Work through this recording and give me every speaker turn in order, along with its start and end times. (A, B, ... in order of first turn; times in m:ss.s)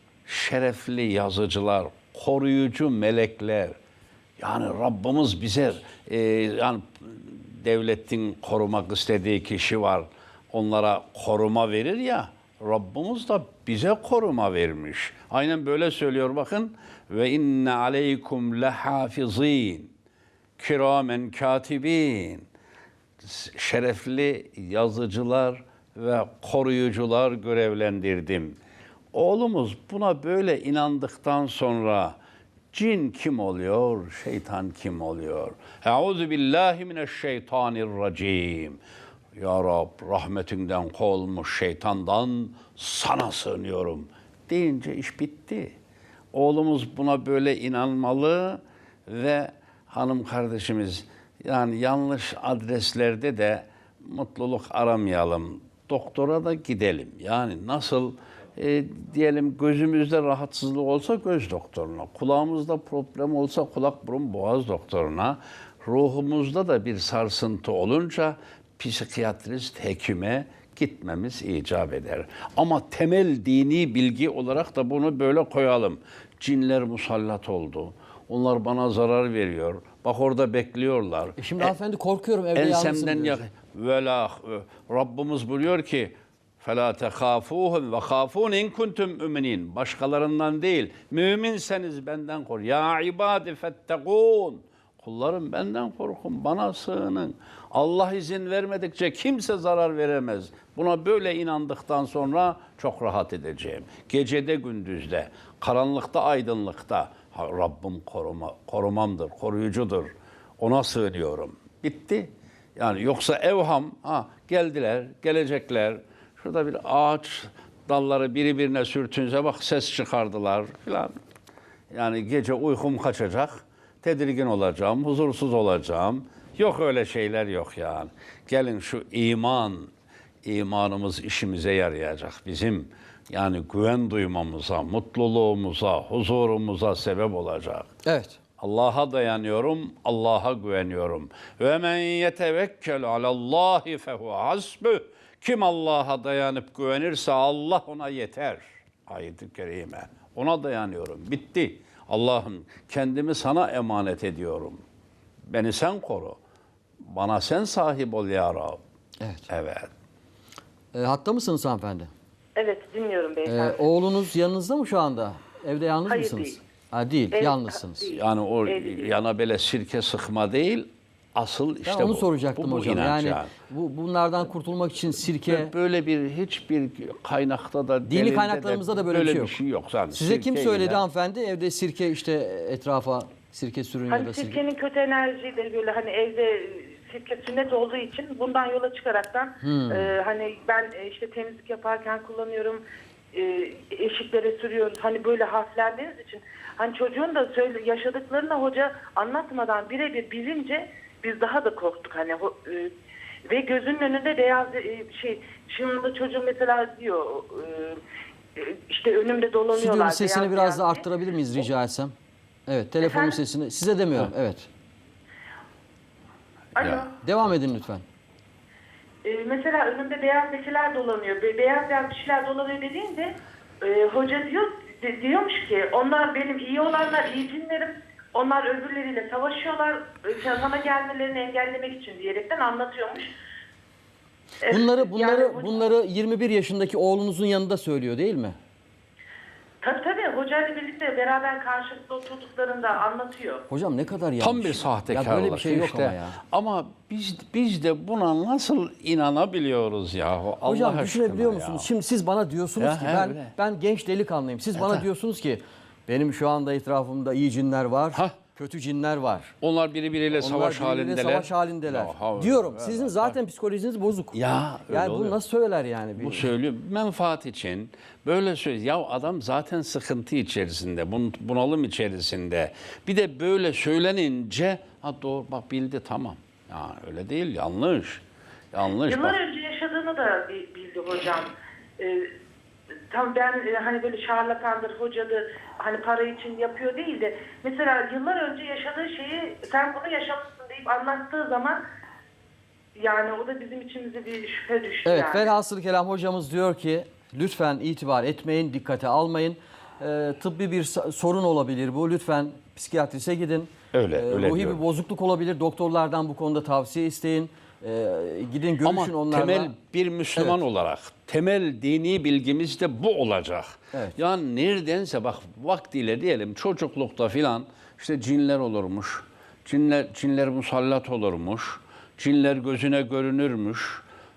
0:00.3-0:03.8 A
0:04.4-0:19.9 A
0:20.6-0:22.5 A
0:23.2-0:28.6 A
0:29.1-0:32.2 A
0:32.7-0:38.8 A
0:39.4-0:45.7 A
0:46.3-1:21.7 A
1:21.4-1:23.4 B
1:22.6-2:01.2 A
2:01.9-2:09.9 A
2:10.4-2:17.9 A
2:18.0-2:18.4 B
2:18.6-2:34.8 A
2:35.5-2:36.4 A
2:37.0-2:38.8 A
2:39.2-2:39.5 B
2:39.5-2:39.9 A
2:40.9-2:42.1 B
2:42.6-2:43.8 C
2:43.4-2:48.1 B
2:46.1-2:46.6 C
2:47.3-2:49.1 C
2:48.1-2:53.5 A
2:51.8-2:55.7 B
2:55.5-3:01.0 A
2:58.1-2:59.6 B
3:00.1-3:04.6 B
3:04.1-3:12.8 C
3:09.6-3:10.2 B
3:13.3-3:22.9 C
3:23.5-3:28.0 C
3:28.6-3:31.1 C
3:29.7-3:32.1 B
3:32.7-3:34.7 B
3:33.0-3:33.4 C
3:36.8-3:37.1 C
3:36.8-3:37.1 A
3:37.2-3:38.0 B
3:39.2-3:53.3 C
3:54.6-3:55.9 C
3:54.7-3:58.6 B
3:59.8-4:03.6 C
4:03.7-4:06.4 B
4:04.4-4:11.9 A
4:10.6-4:19.5 B
4:12.8-4:13.5 A
4:14.8-4:15.0 A
4:19.6-4:23.4 A
4:20.3-4:26.5 B
4:24.3-4:25.4 A
4:26.2-4:39.4 A
4:39.1-4:42.3 C
4:43.1-4:51.8 C
4:53.0-4:55.5 C
4:55.0-5:09.8 B
5:03.9-5:04.8 A
5:08.8-5:24.0 A